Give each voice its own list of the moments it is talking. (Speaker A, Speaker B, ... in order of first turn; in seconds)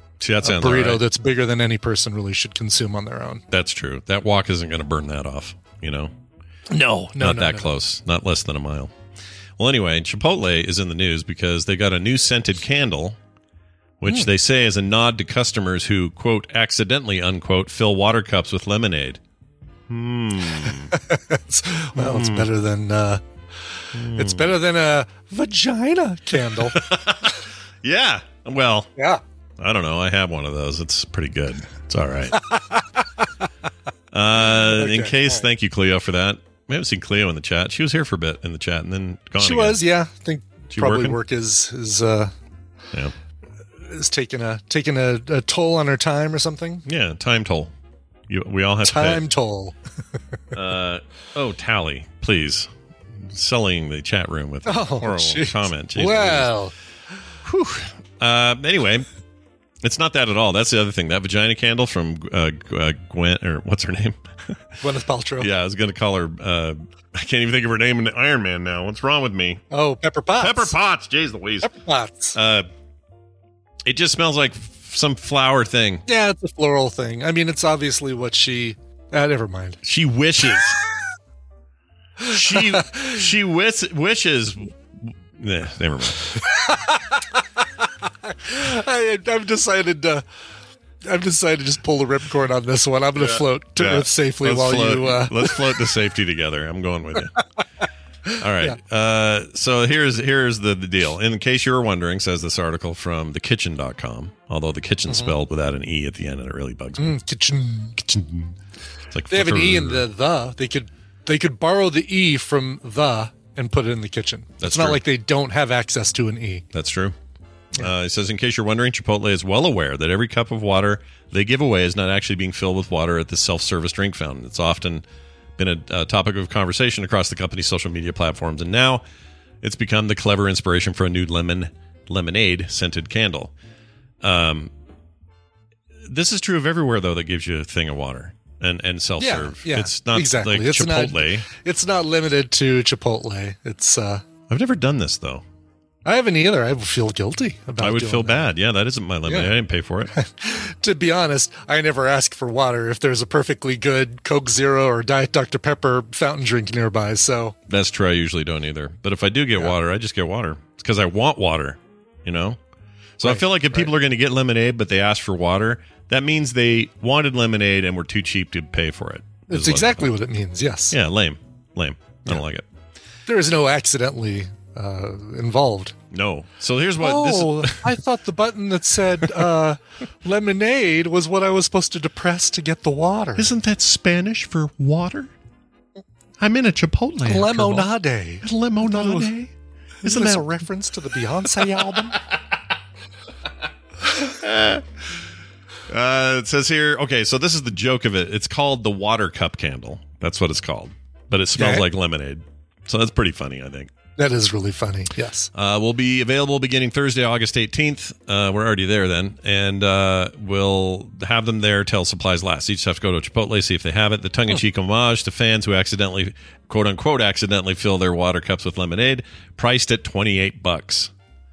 Speaker A: 0.2-1.0, 3.5-6.1, 7.2-8.9, 9.6-13.2, 14.0-19.2, 19.9-20.9, 21.9-22.5, 23.9-24.5, 26.7-28.9, 29.6-32.4, 34.1-39.8, 40.7-41.2, 46.9-47.7, 48.3-49.2, 50.5-56.6, 57.4-59.0, 59.8-64.6, 65.4-69.6, 70.4-71.7, 72.3-72.7, 73.8-76.0, 79.8-80.8, 82.3-86.3, 93.2-97.3, 98.4-107.2, 108.1-108.5, 109.1-110.0, 114.6-115.0, 116.7-117.1, 117.8-125.0, 125.6-129.0, 129.6-133.5, 134.2-134.7, 136.1-141.5, 144.5-145.4, 147.8-150.1, 157.7-162.6, 163.2-170.1, 170.9-172.6, 176.1-178.0, 183.4-185.3, 186.4-187.9, 188.4-189.5, 190.0-190.5, 191.6-192.2, 194.1-194.8, 195.9-203.9, 205.5-221.1
Speaker B: 0.4-3.4, 6.7-7.7, 20.9-23.2, 24.1-26.8, 32.3-33.2, 34.7-35.5, 39.4-42.3, 43.8-46.8, 48.8-49.8, 54.6-56.7, 64.8-65.5, 69.7-70.7, 71.6-72.3, 76.0-79.8, 82.3-83.1, 86.3-87.2, 88.3-90.2, 91.0-95.6, 105.1-105.3, 107.0-108.2, 109.3-116.7, 139.2-144.2, 146.1-148.5, 150.1-157.5, 163.2-163.9, 169.5-170.9, 173.3-175.9, 177.0-183.4, 187.2-189.3, 190.0-192.2, 201.6-201.8, 204.2-205.5